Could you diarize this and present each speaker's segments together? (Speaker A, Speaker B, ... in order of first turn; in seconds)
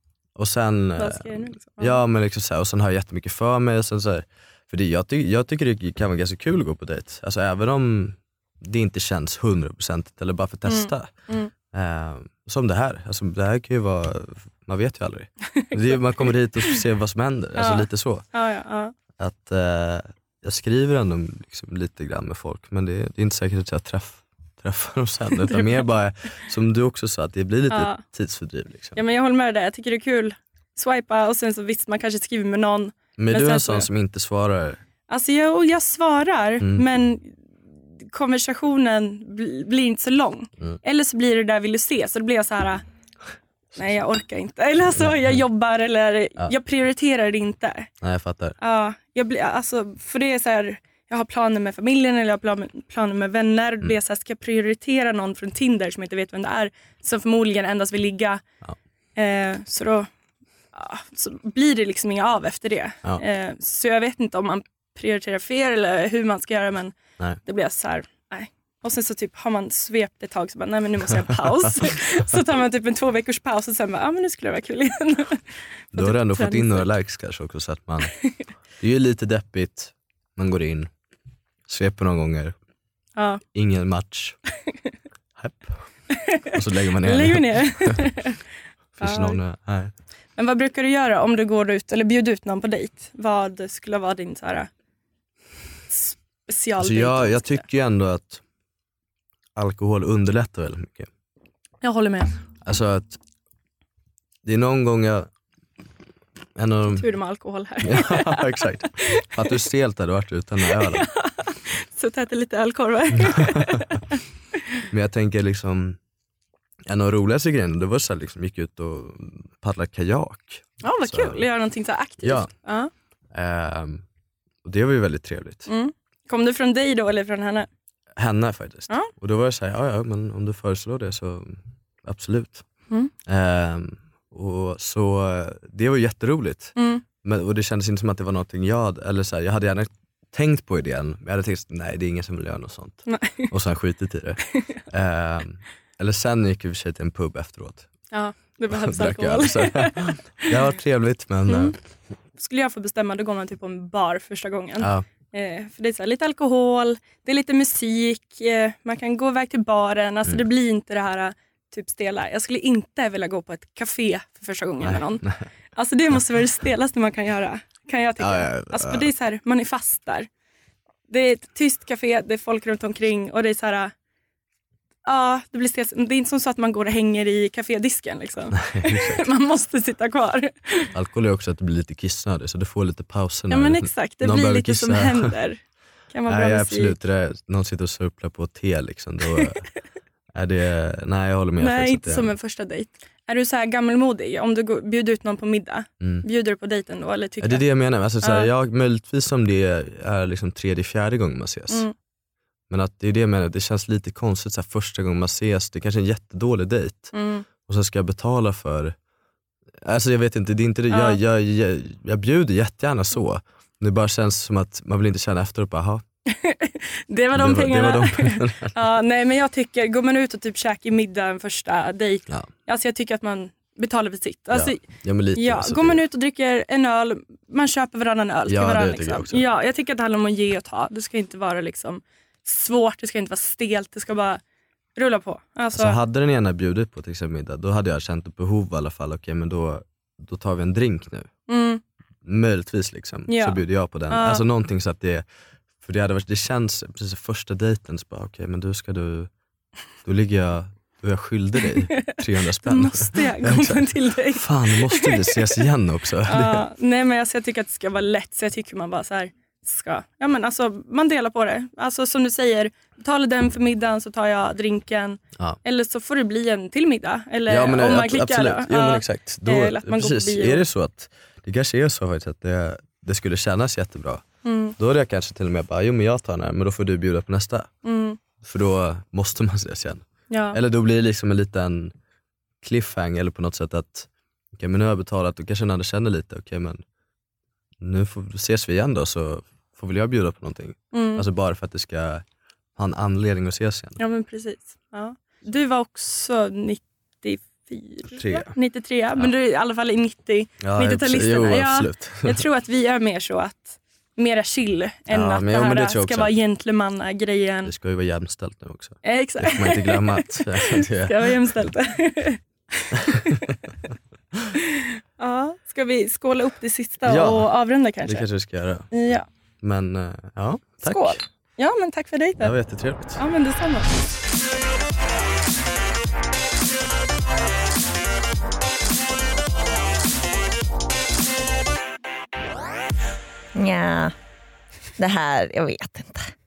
Speaker A: 0.4-18.3, 19.2-29.0, 33.2-34.8, 44.9-45.4, 48.0-48.6, 71.3-71.7, 75.9-78.3, 78.8-80.9, 81.7-82.6, 83.5-84.4, 85.4-88.0, 89.0-89.9, 96.8-98.4, 99.6-101.1, 102.7-103.2, 104.5-105.3, 106.6-107.0, 107.8-111.1, 114.9-116.0, 116.9-121.5, 122.2-122.5, 123.3-124.0, 124.6-125.7, 128.2-132.7, 133.3-147.9, 148.7-151.8, 154.8-155.1, 164.8-165.5, 168.2-169.1, 178.6-179.3, 180.9-185.3, 186.3-189.7, 190.3-192.3, 197.4-201.9, 202.7-208.9, 209.8-216.0, 217.3-218.7, 224.5-226.0, 228.5-229.4, 235.7-241.3, 242.2-245.3, 245.8-249.3, 250.0-256.6, 267.5-274.2, 274.8-277.7, 278.4-281.9, 282.6-286.8, 287.8-292.2, 292.8-294.0, 298.2-298.5, 300.6-302.4, 305.1-306.3, 307.6-311.3, 317.1-317.5, 318.0-318.9, 319.6-321.2, 322.4-323.2
Speaker B: 1.0-2.0, 10.7-11.5, 17.6-18.9, 25.5-25.9, 27.7-28.0, 29.0-33.9, 35.1-37.4, 38.0-42.8, 43.8-47.9, 48.6-58.4, 59.2-60.1, 60.7-76.9, 83.2-83.4, 86.2-86.5, 87.0-88.4, 89.0-89.4, 90.4-94.7, 95.9-97.6, 101.8-102.4, 106.9-109.5, 110.7-114.2, 120.8-122.9, 125.7-127.7, 136.8-137.0, 143.1-143.5, 148.1-150.5, 151.5-151.8, 152.4-170.3, 171.1-173.9, 175.1-180.9, 183.5-187.0, 191.6-197.6, 198.2-198.5, 207.1-207.5, 210.9-211.2, 216.3-234.4, 235.0-236.0, 241.5-241.8, 243.3-244.4, 252.0-255.6, 256.3-270.7, 274.4-274.8, 277.8-278.2, 280.3-280.6, 290.9-291.2, 294.0-307.7, 309.0-313.4, 315.2-318.3, 318.9-319.3, 320.9-323.9
Speaker C: 333.6-334.1, 335.0-336.3